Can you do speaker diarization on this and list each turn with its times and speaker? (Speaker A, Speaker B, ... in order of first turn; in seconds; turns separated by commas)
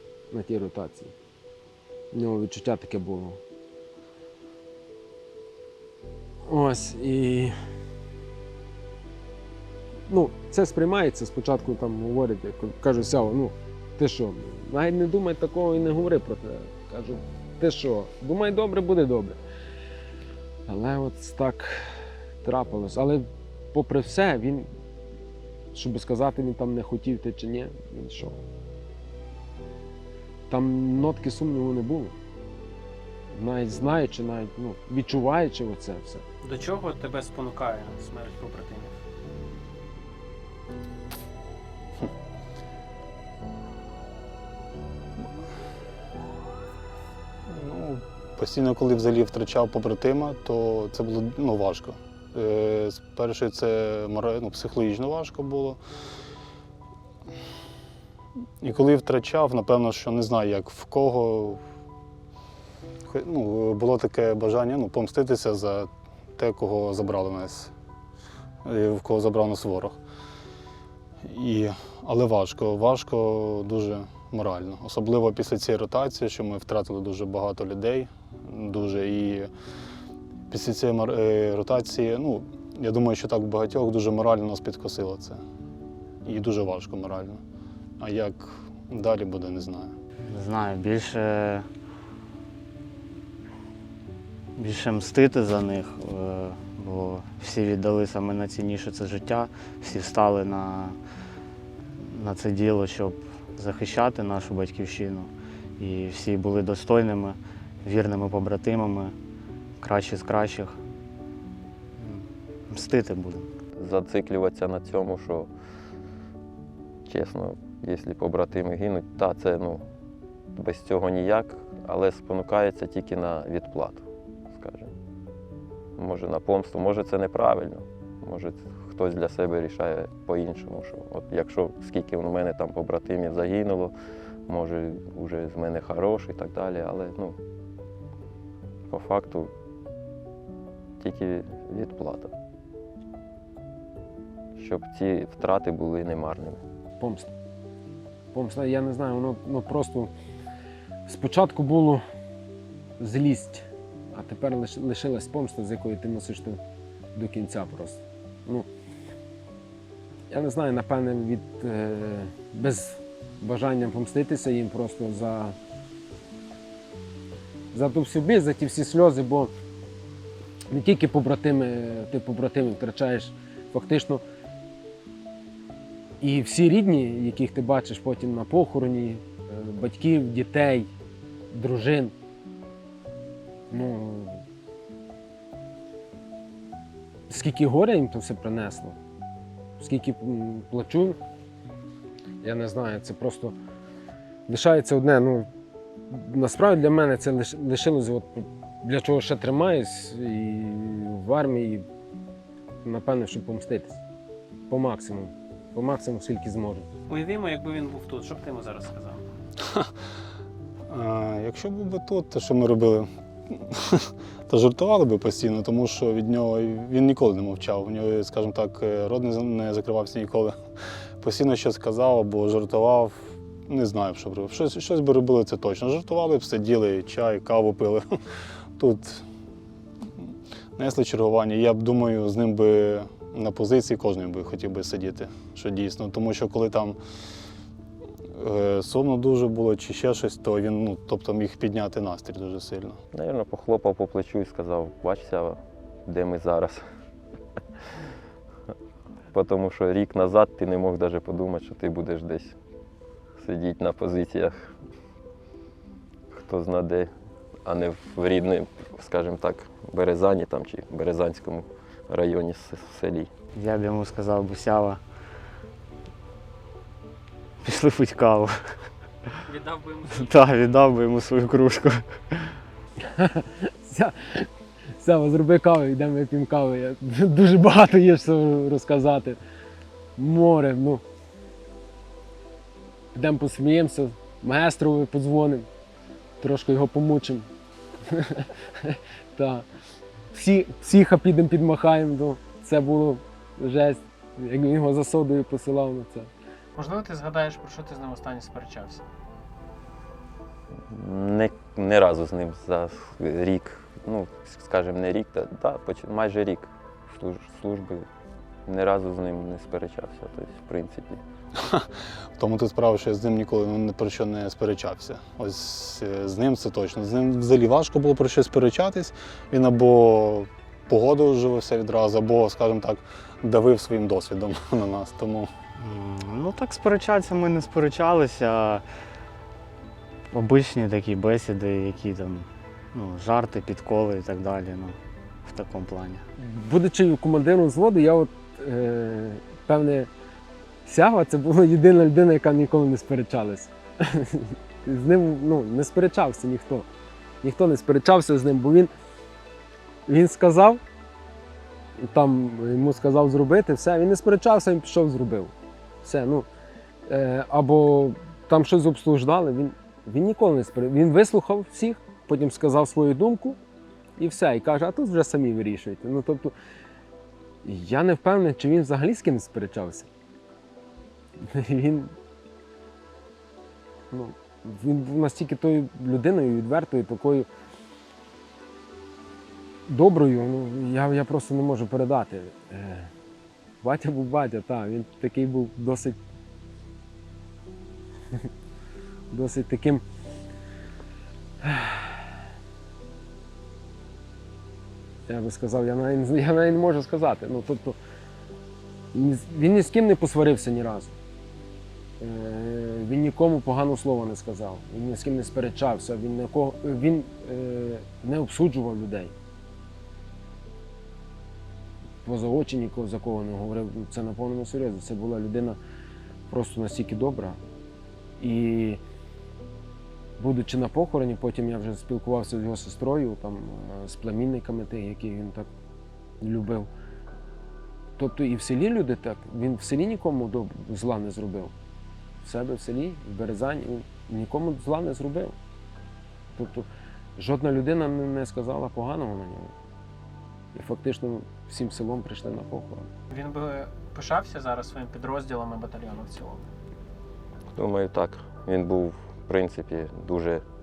Speaker A: 0.3-1.1, Speaker A: 2.1-3.4, Speaker A: 6.4-7.5, Speaker A: 10.1-19.4, Speaker A: 20.7-21.9, Speaker A: 22.4-24.7, Speaker A: 25.7-28.4, Speaker A: 30.5-32.2, Speaker A: 33.3-36.2, Speaker B: 36.4-38.9, Speaker C: 47.5-55.8, Speaker C: 58.6-61.6, Speaker C: 63.1-67.7, Speaker C: 68.6-70.0, Speaker C: 71.2-79.5, Speaker C: 80.5-85.4, Speaker C: 86.2-87.4, Speaker C: 88.0-90.0, Speaker D: 90.3-91.7, Speaker D: 94.6-101.0, Speaker D: 102.1-109.2, Speaker D: 109.8-110.8, Speaker D: 112.0-113.5, Speaker E: 113.8-115.5, Speaker E: 117.1-119.8, Speaker E: 120.5-124.9, Speaker E: 126.0-133.9, Speaker E: 134.5-137.4, Speaker E: 138.9-139.5, Speaker E: 141.0-142.3, Speaker E: 144.6-146.6, Speaker A: 147.0-147.3, Speaker A: 148.3-150.1, Speaker A: 151.1-152.0, Speaker A: 153.0-156.6, Speaker A: 157.2-158.7, Speaker A: 160.3-165.6, Speaker A: 167.7-169.5, Speaker A: 170.7-174.2, Speaker A: 176.2-180.9, Speaker A: 181.5-182.1, Speaker A: 183.7-184.4, Speaker A: 187.3-189.0, Speaker A: 189.8-191.2, Speaker A: 192.4-193.6, Speaker A: 194.5-195.5, Speaker A: 196.1-201.9, Speaker A: 202.8-204.0, Speaker A: 204.7-206.9, Speaker B: 207.1-209.3, Speaker C: 210.9-220.6, Speaker C: 221.2-228.2, Speaker C: 228.8-229.3, Speaker C: 230.8-237.0, Speaker C: 238.3-243.0, Speaker E: 243.1-246.8, Speaker E: 249.3-252.6, Speaker E: 253.4-254.8, Speaker E: 256.3-257.1, Speaker E: 257.6-263.3, Speaker D: 263.6-265.0, Speaker D: 267.6-268.7, Speaker B: 269.5-270.4, Speaker D: 270.1-272.6, Speaker A: 273.0-279.4, Speaker A: 280.2-281.0, Speaker A: 283.1-285.7, Speaker A: 286.4-287.5, Speaker A: 288.1-289.7, Speaker A: 290.3-296.3, Speaker B: 296.8-299.0, Speaker E: 300.8-308.1, Speaker E: 308.7-311.2, Speaker C: 311.6-325.5, Speaker D: 325.8-328.8, Speaker D: 330.3-336.2, Speaker A: 336.4-340.1, Speaker A: 340.9-346.9, Speaker A: 347.4-348.9, Speaker A: 350.1-350.8, Speaker A: 352.0-355.5, Speaker A: 356.0-356.5, Speaker A: 357.1-363.6, Speaker A: 364.2-366.5, Speaker A: 367.6-370.1, Speaker A: 371.4-372.1, Speaker A: 374.1-377.5, Speaker A: 379.9-383.1, Speaker A: 383.8-386.2, Speaker A: 389.3-390.0, Speaker A: 391.6-392.2, Speaker A: 395.3-398.0, Speaker A: 399.1-401.1, Speaker A: 402.2-409.3, Speaker A: 412.2-415.8, Speaker A: 416.5-417.6, Speaker A: 418.4-419.0, Speaker A: 420.4-425.7, Speaker A: 426.4-426.9, Speaker A: 428.2-431.7, Speaker A: 432.4-435.6, Speaker A: 436.6-439.7, Speaker A: 440.7-443.1, Speaker B: 443.3-446.7, Speaker E: 447.8-450.6